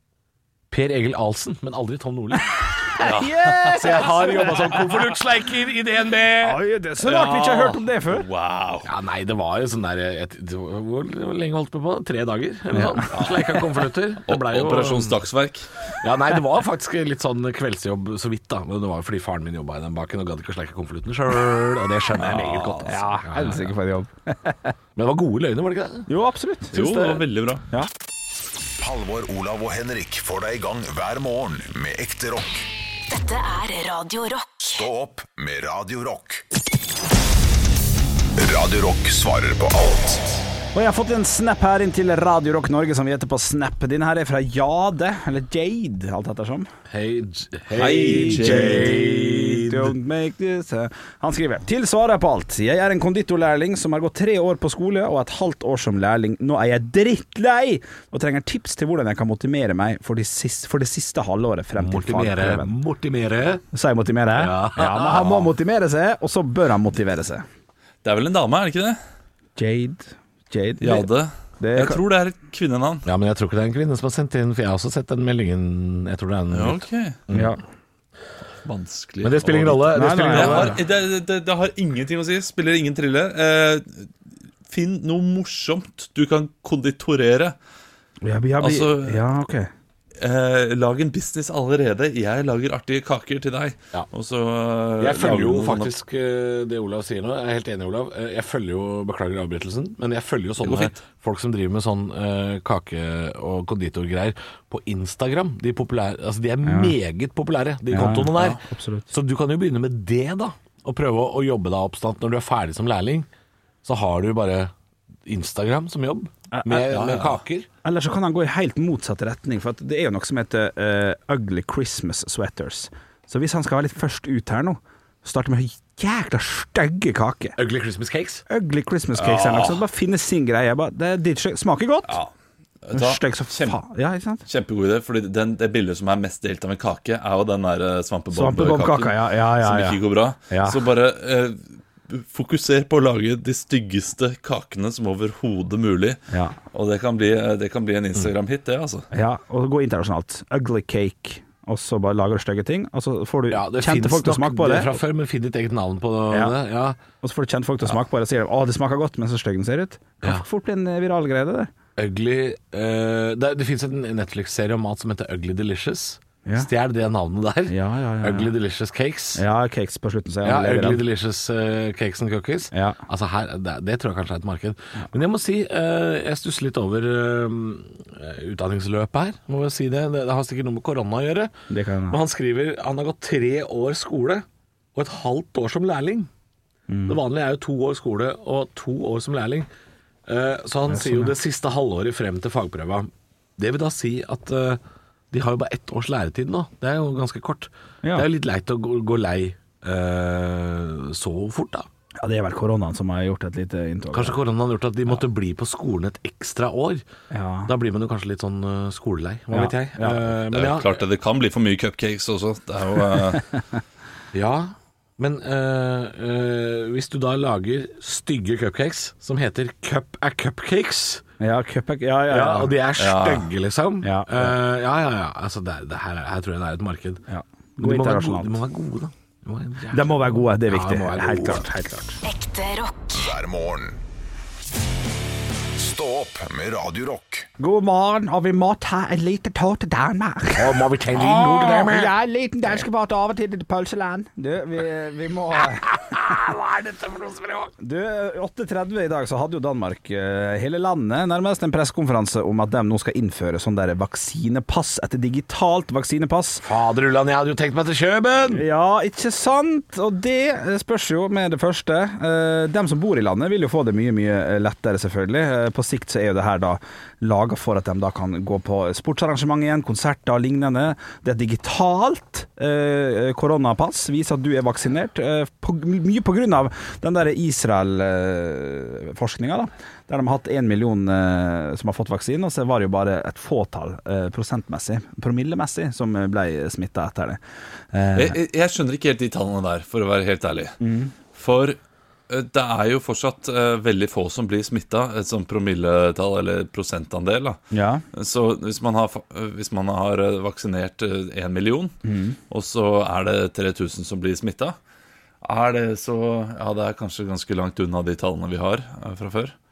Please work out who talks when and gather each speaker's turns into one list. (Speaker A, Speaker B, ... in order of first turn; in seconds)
Speaker A: 0.7-2.7, 3.6-6.6, 8.8-15.2, 16.0-23.7, 25.0-26.1, 26.8-27.1, 46.9-49.9, 61.8-63.6, 64.3-65.5, 73.0-77.6, 79.2-80.8, 95.0-113.3, 113.8-114.7, 115.2-117.7, 127.6-128.4, 153.5-157.0, 162.0-169.4, 170.4-181.5, 182.1-186.3, 187.1-189.7, 190.3-194.8, 195.3-201.9, 204.1-207.0, 207.7-211.0, 214.3-221.2, 222.3-227.2, 227.8-231.7, 240.6-242.1, 245.6-247.7, 256.6-258.6
Speaker B: 2.9-4.8, 6.4-8.2, 12.7-13.1, 22.9-24.7, 26.1-27.1, 40.7-46.7, 48.0-62.7, 63.7-67.5, 69.6-71.1, 71.6-72.0, 77.3-77.6, 79.9-80.8, 88.2-89.7, 106.7-106.9, 107.9-109.1, 116.5-116.9, 117.8-127.6, 128.5-132.2, 132.9-134.4, 138.3-140.8, 149.1-155.0, 156.3-156.6, 157.2-161.7, 167.7-168.5, 169.4-171.0, 172.7-173.0, 181.7-182.2, 186.9-187.2, 190.9-191.3, 202.2-204.4, 207.3-207.7, 209.5-210.3, 221.4-222.7, 224.0-224.5, 227.3-228.6, 229.9-232.2, 237.6-246.2, 247.8-256.6, 258.5-287.4, 287.9-288.4, 290.8-291.1, 297.7-298.0, 302.1-302.4
Speaker C: 3.0-3.9, 7.0-8.9, 13.1-13.6, 14.3-15.7, 22.1-23.0, 26.7-27.6, 47.8-49.1, 68.0-69.0, 70.8-73.1, 76.5-77.2, 78.6-84.1, 84.7-87.6, 88.6-89.2, 90.2-95.9, 100.6-100.9, 116.9-117.4, 129.2-129.8, 132.1-132.3, 132.8-133.8, 134.5-149.1, 210.5-213.4, 223.0-223.5, 288.1-290.8, 291.3-291.8, 292.3-304.8, 305.4-309.6
Speaker D: 28.8-32.7, 34.7-36.4, 38.4-40.4, 233.2-234.0, 235.8-237.5
Speaker E: 33.1-34.9, 232.2-233.3